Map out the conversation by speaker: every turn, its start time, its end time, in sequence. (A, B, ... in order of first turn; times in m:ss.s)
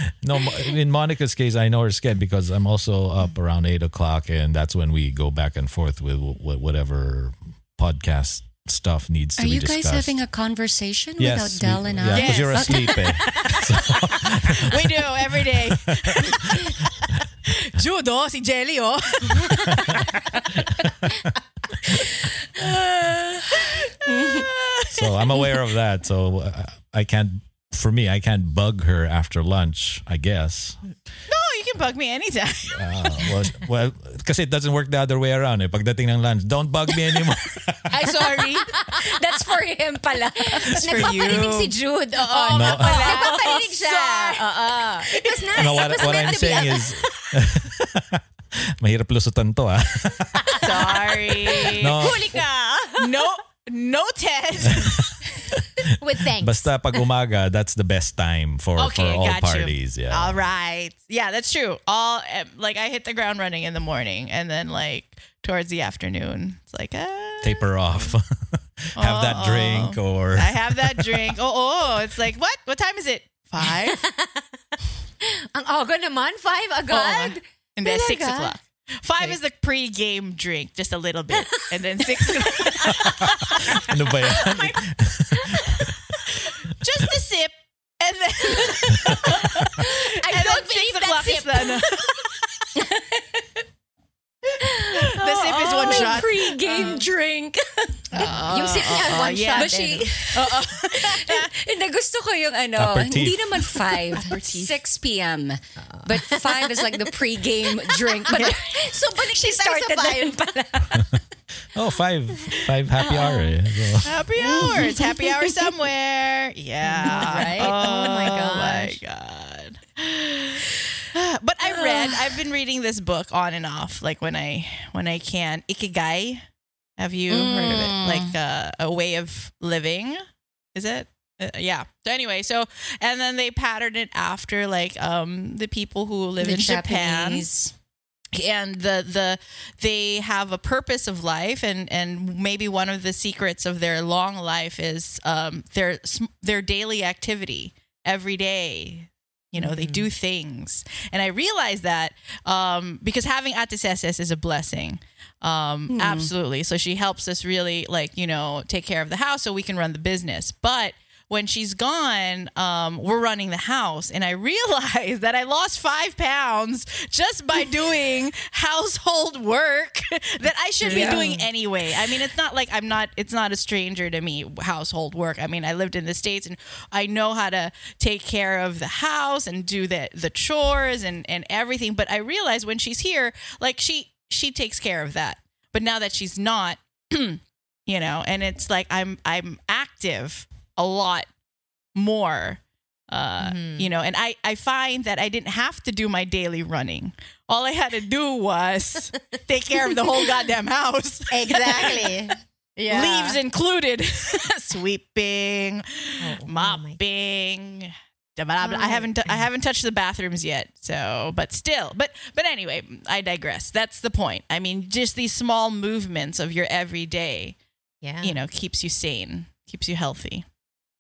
0:00.2-0:10.2 A
0:09.4-0:13.3 B
0:11.2-0:14.8 A
0:12.1-0:13.6 C
0:14.6-0:16.7 C
0:15.4-0:16.7 A
0:17.5-0:20.0 C
0:19.7-0:20.0 A
0:20.6-0:21.3 A
0:23.5-0:25.4 C
0:24.1-0:24.4 B
0:24.9-0:30.8 A
0:31.3-0:33.3 C
0:32.7-0:37.9 A
0:37.9-0:38.7 C
0:38.2-0:39.1 D
0:38.4-0:40.8 B
0:40.5-0:47.3 D
0:40.8-0:46.7 C
0:42.5-0:43.2 A
0:45.6-0:51.0 A
0:50.4-0:53.3 D
0:50.6-0:52.0 C
0:51.5-0:52.4 A
0:53.0-0:55.1 C
0:54.7-1:00.4 A
0:56.0-0:56.7 D
0:58.8-1:08.1 C
1:07.4-1:11.4 A
1:09.0-1:14.0 C
1:13.8-1:14.5 D
1:15.2-1:18.6 D
1:16.9-1:23.6 C
1:21.4-1:24.7 D
1:23.0-1:26.2 A
1:26.8-1:32.3 C
1:29.8-1:32.0 D
1:32.8-1:33.6 B
1:34.6-1:36.2 D
1:34.8-1:37.0 C
1:35.5-1:38.1 B
1:38.1-1:39.8 C
1:38.2-1:40.1 D
1:39.6-1:48.5 B
1:40.3-1:41.5 C
1:42.8-1:43.7 A
1:44.1-1:44.6 D
1:45.8-1:47.2 D
1:47.7-1:51.2 D
1:49.3-1:50.8 B
1:51.7-1:54.3 A
1:53.0-1:53.5 D
1:54.0-2:06.4 C
1:54.6-1:55.0 D
1:56.8-1:59.0 D
1:57.2-1:58.1 B
2:07.0-2:10.2 C
2:07.3-2:08.3 B
2:10.8-2:17.5 C
2:16.4-2:17.7 B
2:18.3-3:11.3 C
2:29.6-2:30.1 D
2:35.9-2:36.3 B
2:50.8-2:51.5 D
2:50.9-2:51.2 B
3:12.0-3:22.3 C
3:13.4-3:13.9 D
3:21.3-3:23.4 D
3:22.9-3:37.6 C
3:26.2-3:27.0 D
3:28.6-3:29.5 D
3:38.0-3:38.4 D
3:38.2-3:40.5 C